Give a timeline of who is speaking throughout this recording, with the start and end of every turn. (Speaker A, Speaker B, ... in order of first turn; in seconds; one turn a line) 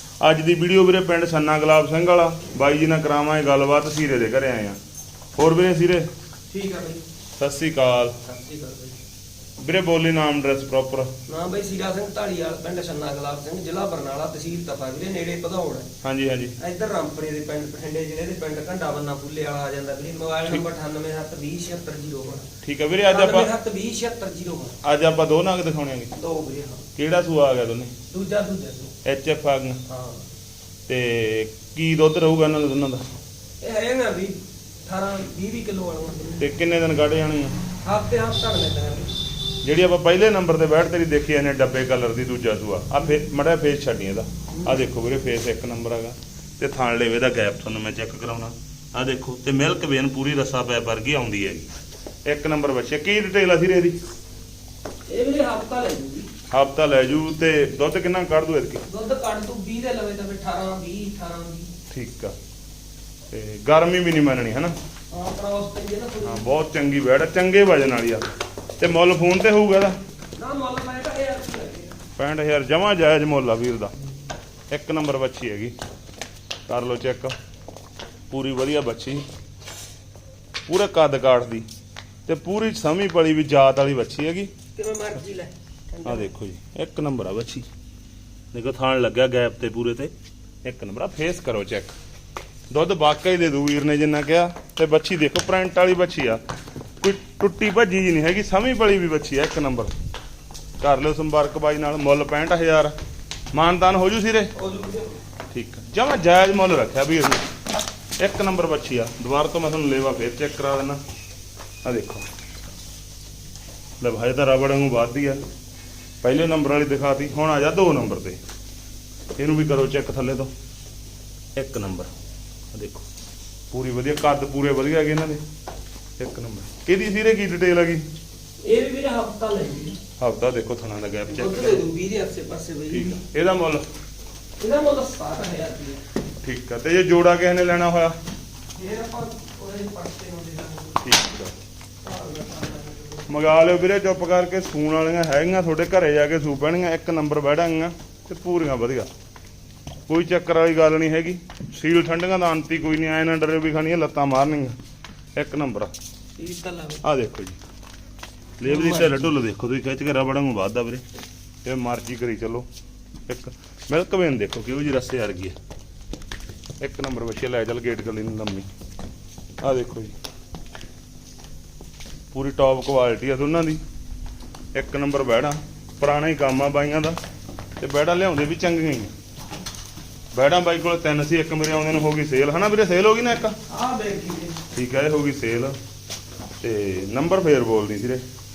Speaker A: 0.2-4.8
Speaker A: 5.4-6.1
Speaker B: 6.5-7.0
Speaker A: 7.4-8.2
Speaker B: 8.2-9.0
Speaker A: 9.6-11.1
Speaker B: 11.3-15.9
Speaker A: 16.0-16.6
Speaker B: 16.6-22.5
Speaker A: 22.6-23.5
Speaker B: 23.1-24.8
Speaker A: 24.8-26.1
Speaker B: 26.1-26.8
Speaker A: 26.9-27.9
Speaker B: 28.1-28.9
Speaker A: 29.0-29.8
Speaker B: 29.9-30.2
Speaker A: 30.9-33.0
Speaker B: 33.6-36.4
Speaker A: 36.4-37.5
Speaker B: 37.8-39.1
Speaker A: 39.6-51.7
Speaker B: 44.6-44.9
Speaker A: 52.2-54.0
Speaker B: 55.1-56.3
Speaker A: 56.5-58.8
Speaker B: 58.9-61.7
Speaker A: 61.9-62.3
Speaker A: 63.3-64.7
Speaker B: 65.1-66.5
Speaker A: 66.2-70.0
Speaker B: 70.4-72.0
Speaker A: 72.2-73.9
Speaker A: 74.7-75.7
Speaker A: 76.7-77.3
Speaker A: 78.3-79.2
Speaker A: 80.7-81.6
Speaker A: 82.2-84.5
Speaker B: 84.8-86.3
Speaker A: 86.0-87.7
Speaker A: 88.5-90.1
Speaker A: 90.6-91.9
Speaker A: 92.7-96.4
Speaker A: 97.0-99.9
Speaker A: 100.8-102.9
Speaker A: 103.5-104.5
Speaker B: 104.5-105.2
Speaker A: 105.5-107.4
Speaker A: 108.2-111.0
Speaker A: 111.8-112.2
Speaker A: 114.0-115.4
Speaker A: 116.2-118.4
Speaker A: 119.4-120.5
Speaker A: 121.5-122.1
Speaker A: 122.7-123.0
Speaker A: 123.7-125.4
Speaker A: 126.2-128.0
Speaker B: 128.6-130.0
Speaker A: 130.2-131.8
Speaker B: 131.3-133.2
Speaker A: 132.9-133.8
Speaker B: 134.6-136.0
Speaker A: 136.4-138.1
Speaker B: 138.7-141.0
Speaker A: 141.0-141.6
Speaker B: 142.0-143.3
Speaker A: 143.3-149.1
Speaker A: 150.1-154.7
Speaker A: 155.3-155.9
Speaker B: 156.4-157.0
Speaker A: 157.0-157.6
Speaker A: 158.6-161.0
Speaker B: 158.7-159.3
Speaker A: 161.6-162.7
Speaker A: 163.3-165.6
Speaker A: 166.8-168.7
Speaker A: 169.6-170.1
Speaker A: 172.3-173.8
Speaker A: 174.7-177.2
Speaker A: 177.8-179.1
Speaker A: 180.3-183.6
Speaker B: 183.7-184.6
Speaker A: 184.7-185.8
Speaker A: 186.6-188.2